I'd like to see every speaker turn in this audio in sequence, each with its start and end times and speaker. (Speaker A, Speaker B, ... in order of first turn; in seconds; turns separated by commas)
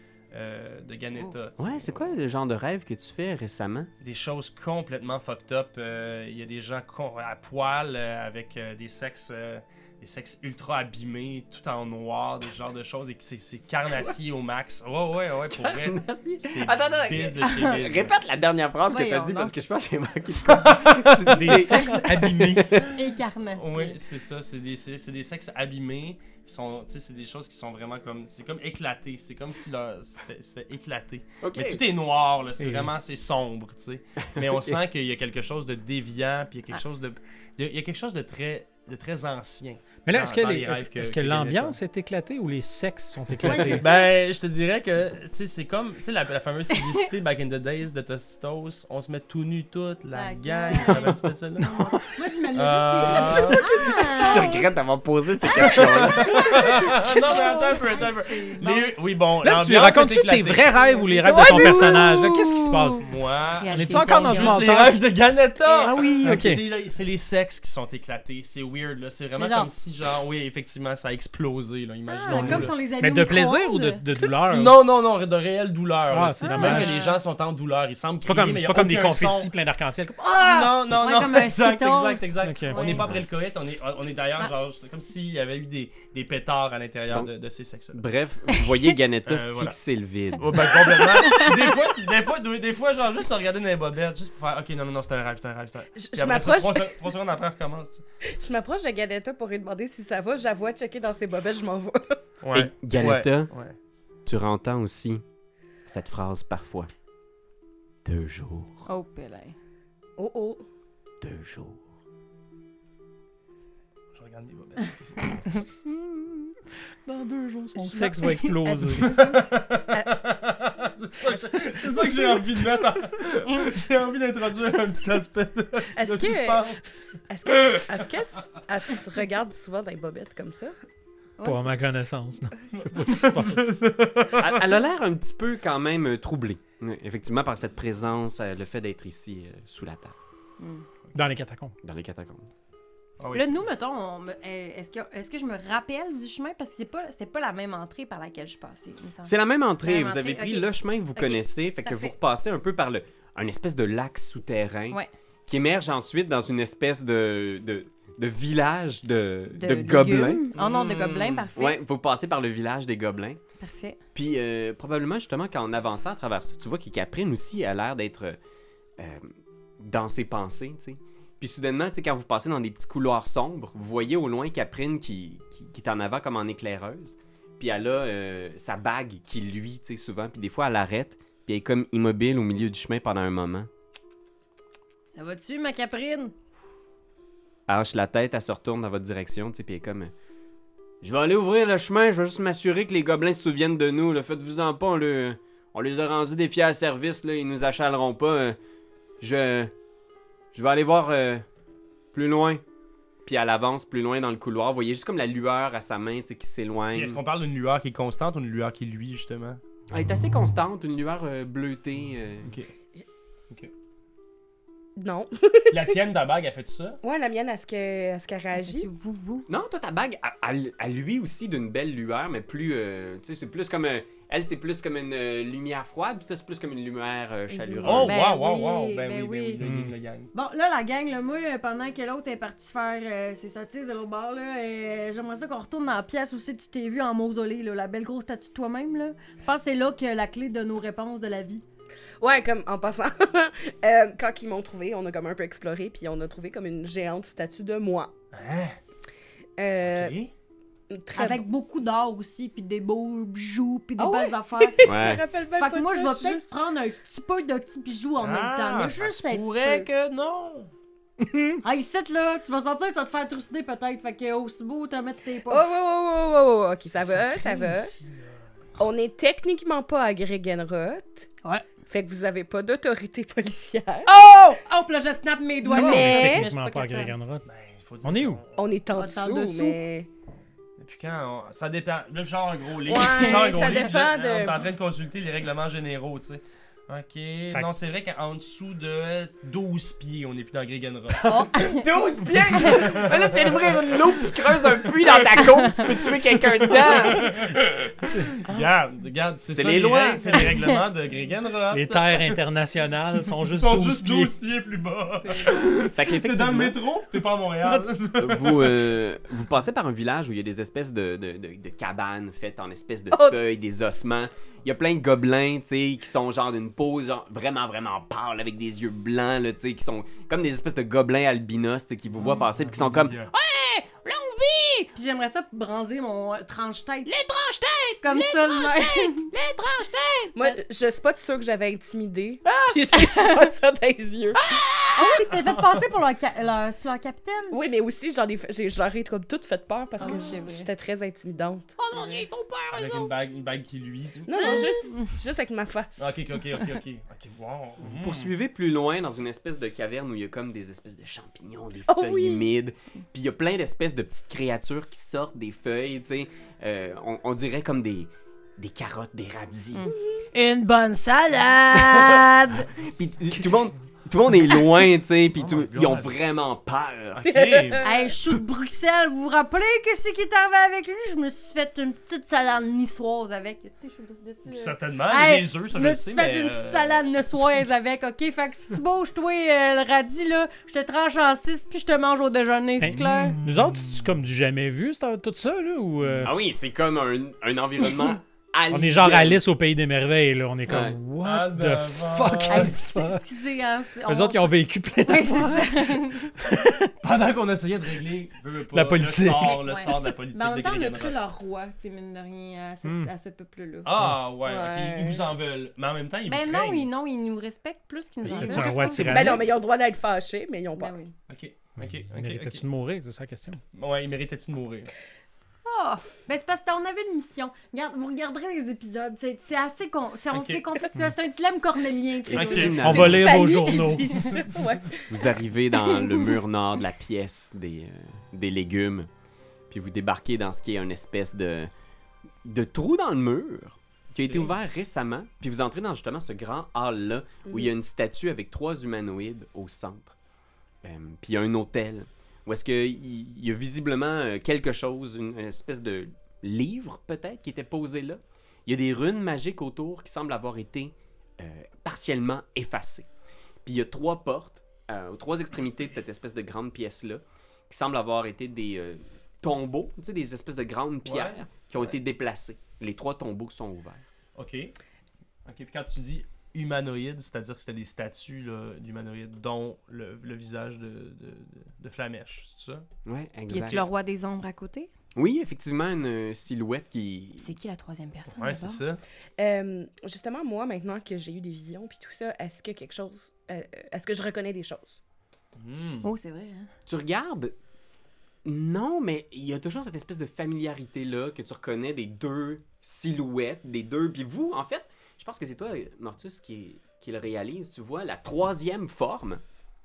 Speaker A: 0.3-2.2, Speaker B: 1.6-3.9, Speaker A: 4.0-18.1, Speaker B: 15.5-22.9, Speaker C: 18.9-19.6, Speaker D: 21.2-22.8, Speaker C: 22.9-24.0, Speaker A: 23.5-41.8, Speaker B: 31.4-31.8, Speaker D: 32.6-32.9, Speaker B: 34.3-34.8, Speaker D: 40.0-43.9, Speaker A: 43.4-51.8, Speaker C: 43.4-44.0, Speaker C: 50.1-54.7, Speaker D: 51.6-52.0, Speaker A: 52.5-53.6, Speaker E: 53.1-54.3, Speaker B: 53.9-56.5, Speaker A: 55.6-61.0, Speaker C: 56.2-58.9, Speaker D: 57.3-57.7, Speaker D: 59.4-63.1, Speaker E: 61.2-62.6, Speaker C: 61.3-63.0, Speaker A: 63.0-72.7, Speaker C: 63.5-64.6, Speaker D: 63.7-65.0, Speaker C: 65.6-66.5, Speaker D: 66.2-66.6, Speaker C: 69.4-69.7, Speaker C: 72.1-74.0, Speaker D: 72.3-74.8, Speaker A: 74.5-79.5, Speaker D: 76.1-77.0, Speaker C: 76.4-77.2, Speaker D: 78.2-80.7, Speaker A: 80.3-88.0, Speaker C: 80.9-83.1, Speaker D: 82.4-83.0, Speaker B: 87.9-90.6, Speaker A: 89.3-89.8, Speaker A: 90.4-98.0, Speaker C: 90.5-91.7, Speaker E: 96.0-96.9, Speaker E: 98.3-102.2, Speaker A: 102.4-103.8, Speaker B: 102.5-103.5, Speaker B: 104.2-105.2, Speaker B: 105.9-106.9, Speaker B: 108.0-108.9, Speaker C: 108.8-109.5, Speaker E: 110.2-110.6, Speaker B: 111.2-111.8, Speaker A: 114.1-115.6, Speaker D: 115.8-116.5, Speaker D: 117.0-119.5, Speaker C: 117.9-119.1, Speaker A: 118.9-128.0, Speaker E: 126.0-126.7, Speaker E: 127.3-130.7, Speaker C: 131.4-131.7, Speaker D: 131.4-133.8, Speaker A: 132.8-134.6, Speaker B: 134.4-140.1, Speaker C: 140.6-140.8, Speaker D: 141.1-141.8, Speaker B: 141.8-142.5, Speaker A: 143.2-143.6, Speaker C: 143.3-152.1, Speaker B: 149.2-160.4, Speaker C: 159.5-161.8, Speaker A: 160.5-161.5, Speaker B: 161.5-163.4, Speaker C: 163.6-164.0, Speaker B: 164.1-168.4, Speaker B: 169.0-183.7, Speaker C: 185.1-186.3, Speaker B: 187.7-190.1, Speaker B: 191.0-198.6, Speaker B: 199.2-199.7, Speaker B: 200.5-201.4, Speaker B: 202.1-202.6, Speaker B: 203.2-207.2, Speaker A: 206.9-209.6, Speaker B: 209.9-212.5, Speaker A: 212.4-212.7, Speaker E: 215.0-216.0, Speaker A: 215.7-217.0, Speaker E: 217.0-218.9, Speaker C: 218.5-219.5, Speaker B: 219.5-228.2, Speaker E: 227.5-228.1, Speaker A: 227.8-230.3, Speaker C: 228.0-229.6, Speaker D: 229.6-229.9, Speaker C: 230.3-241.6, Speaker E: 242.2-248.1, Speaker A: 248.3-248.8, Speaker E: 249.6-250.2, Speaker A: 249.8-250.3, Speaker E: 250.9-251.4, Speaker C: 251.1-259.9, Speaker E: 254.0-256.4, Speaker B: 254.8-255.2, Speaker A: 258.2-260.7, Speaker C: 261.6-265.7, Speaker E: 265.5-267.9, Speaker A: 266.9-268.4, Speaker E: 268.8-271.3, Speaker E: 271.9-274.1, Speaker C: 274.1-277.1, Speaker E: 275.6-276.5, Speaker D: 275.7-277.4, Speaker A: 277.4-278.7, Speaker D: 278.0-278.4, Speaker E: 278.6-280.1, Speaker C: 278.9-279.8, Speaker A: 280.8-291.3, Speaker E: 282.8-284.6, Speaker C: 291.2-291.9, Speaker B: 291.5-297.3, Speaker A: 292.6-293.8, Speaker A: 296.6-302.4, Speaker D: 297.3-298.4, Speaker B: 299.5-300.5, Speaker D: 301.7-304.4, Speaker A: 303.4-308.9, Speaker C: 305.2-305.6, Speaker B: 305.9-306.8, Speaker B: 308.2-324.9, Speaker E: 313.1-313.4, Speaker A: 322.3-323.3, Speaker C: 324.9-327.1, Speaker B: 327.1-330.4, Speaker C: 328.0-329.3, Speaker E: 330.3-334.4, Speaker B: 332.4-332.8, Speaker C: 332.9-333.5, Speaker B: 334.3-335.3, Speaker C: 334.9-337.6, Speaker E: 337.5-341.7, Speaker C: 340.0-340.7, Speaker B: 341.8-343.1, Speaker A: 342.7-344.6, Speaker E: 344.3-346.2, Speaker C: 344.4-345.1, Speaker A: 346.0-348.4, Speaker B: 347.8-359.9, Speaker E: 351.9-352.5, Speaker C: 359.7-362.7, Speaker B: 361.9-362.1, Speaker B: 362.8-367.4, Speaker A: 365.4-366.1, Speaker A: 367.2-367.9, Speaker E: 367.2-368.1, Speaker C: 367.8-383.4, Speaker A: 374.4-377.5, Speaker D: 382.8-386.3, Speaker A: 382.9-384.0, Speaker B: 386.2-389.4, Speaker D: 388.7-393.2, Speaker B: 390.7-391.0, Speaker A: 391.2-392.8, Speaker C: 392.5-396.3, Speaker D: 394.0-396.9, Speaker A: 397.0-401.2, Speaker D: 398.7-399.7, Speaker C: 399.6-403.9, Speaker D: 402.8-403.1, Speaker A: 403.8-406.9, Speaker E: 404.4-405.3, Speaker C: 406.2-409.4, Speaker A: 408.2-409.3, Speaker D: 408.3-409.4, Speaker E: 409.0-410.9, Speaker C: 410.7-411.1, Speaker A: 411.3-412.6, Speaker D: 411.8-413.6, Speaker A: 413.7-414.9, Speaker C: 415.6-423.1, Speaker A: 420.3-420.6, Speaker B: 422.2-423.4, Speaker A: 422.3-423.2, Speaker D: 422.8-424.4, Speaker E: 423.1-425.3, Speaker B: 425.1-429.1, Speaker C: 425.9-426.3, Speaker B: 429.7-431.7, Speaker B: 432.4-440.1, Speaker A: 434.2-434.5, Speaker E: 437.4-437.7, Speaker B: 440.8-453.1, Speaker B: 453.6-464.0, Speaker A: 461.0-461.4, Speaker A: 464.4-464.7, Speaker A: 465.4-472.9, Speaker B: 473.1-473.9, Speaker C: 473.5-474.9, Speaker A: 473.5-473.9, Speaker B: 475.1-477.5, Speaker C: 477.4-478.8, Speaker A: 478.3-479.0, Speaker E: 479.4-485.0, Speaker A: 485.6-486.1, Speaker C: 486.0-486.7, Speaker B: 486.9-487.6, Speaker B: 488.4-499.4